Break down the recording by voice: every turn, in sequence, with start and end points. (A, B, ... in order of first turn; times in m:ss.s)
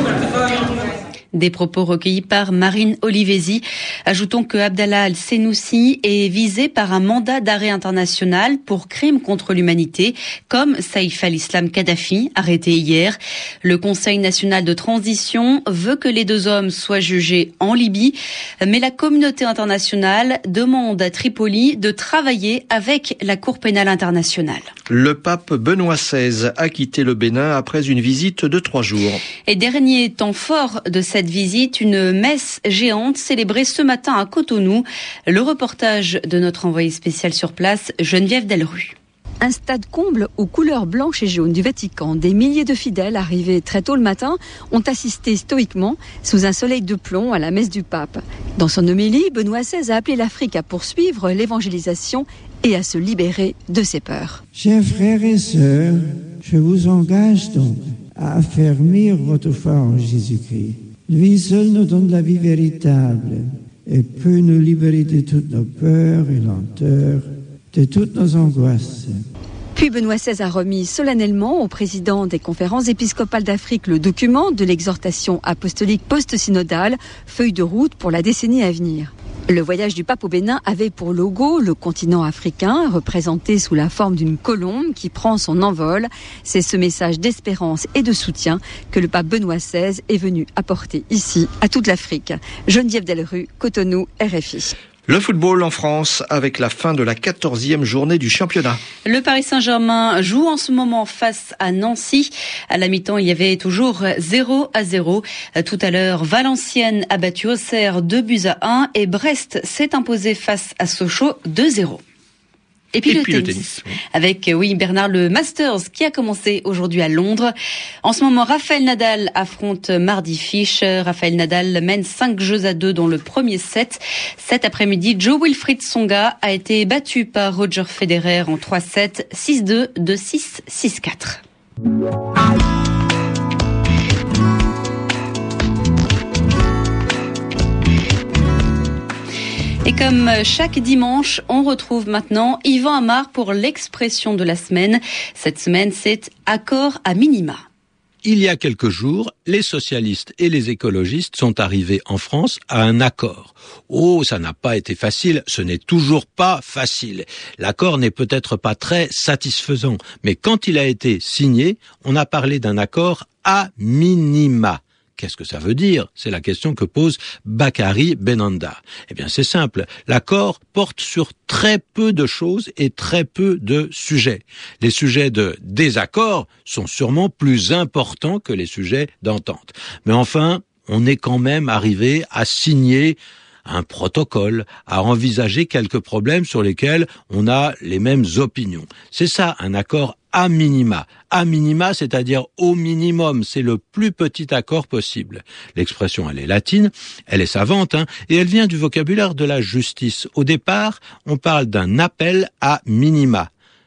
0:01.3-0:24.7 A
0:24.9-0:29.2 B
0:29.5-0:39.0 A
0:39.4-0:54.4 C
0:54.6-1:09.2 D
1:09.8-1:34.7 C
1:35.1-1:38.8 B
1:39.0-1:52.0 A
1:52.9-1:57.5 A
1:53.1-1:54.0 B
1:58.0-2:11.4 A
2:19.8-2:27.6 A
2:28.2-3:23.5 E